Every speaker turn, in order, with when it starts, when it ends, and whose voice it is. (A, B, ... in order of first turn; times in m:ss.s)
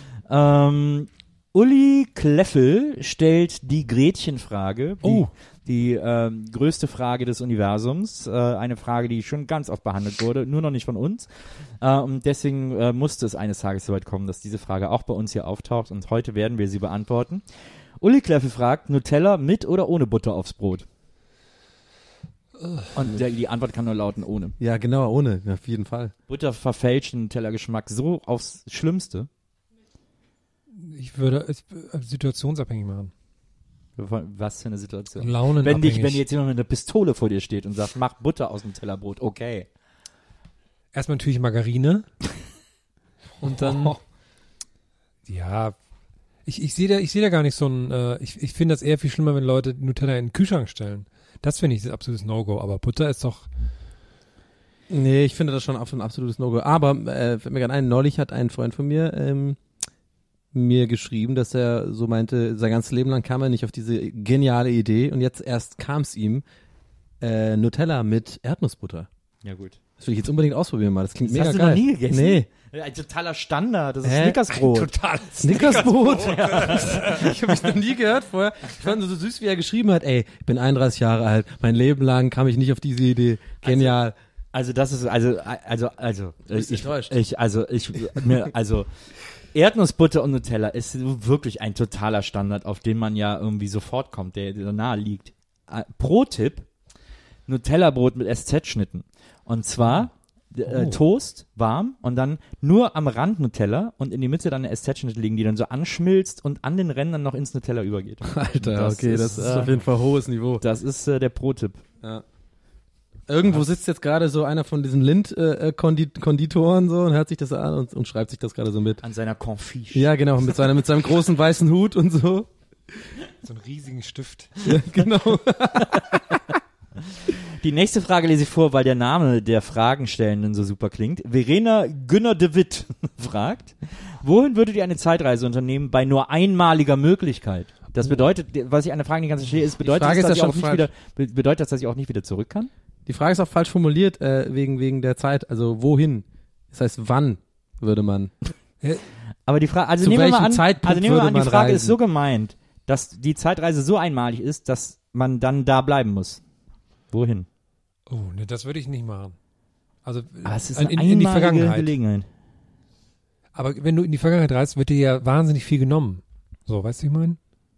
0:00.3-0:17.4 A
0:05.0-0:05.3 B
0:18.0-0:20.9 A
0:22.6-0:22.9 B
0:22.9-0:24.6 A
0:24.6-0:26.1 C
0:26.3-0:29.3 A
0:30.8-0:33.1 B
0:34.0-0:39.7 A
0:35.2-0:36.2 B
0:40.9-0:42.1 B
0:43.4-0:44.0 B
0:45.3-0:45.8 B
0:46.5-0:53.5 B
0:54.9-0:59.6 C
1:00.5-1:06.4 C
1:07.2-1:09.1 C
1:09.4-1:09.8 A
1:10.0-1:12.5 C
1:11.3-1:14.9 A
1:14.0-1:14.4 C
1:14.5-1:17.3 B
1:15.4-1:24.1 C
1:15.5-1:17.4 A
1:23.6-1:23.9 A
1:24.5-1:28.9 A
1:26.5-1:27.2 C
1:29.5-1:36.7 A
1:37.5-1:49.7 A
1:40.7-1:41.0 B
1:48.2-1:50.6 C
1:50.6-1:51.8 A
1:53.3-1:59.0 C
1:59.0-2:00.1 A
1:59.9-2:02.5 C
2:03.4-2:04.7 B
2:04.6-2:06.4 C
2:07.3-2:22.7 A
2:19.8-2:20.9 C
2:23.1-2:28.3 C
2:29.5-2:36.4 A
2:30.0-2:32.0 C
2:37.1-2:37.5 A
2:38.1-2:39.4 B
2:40.0-2:41.9 B
2:40.4-2:42.3 A
2:43.5-2:47.4 B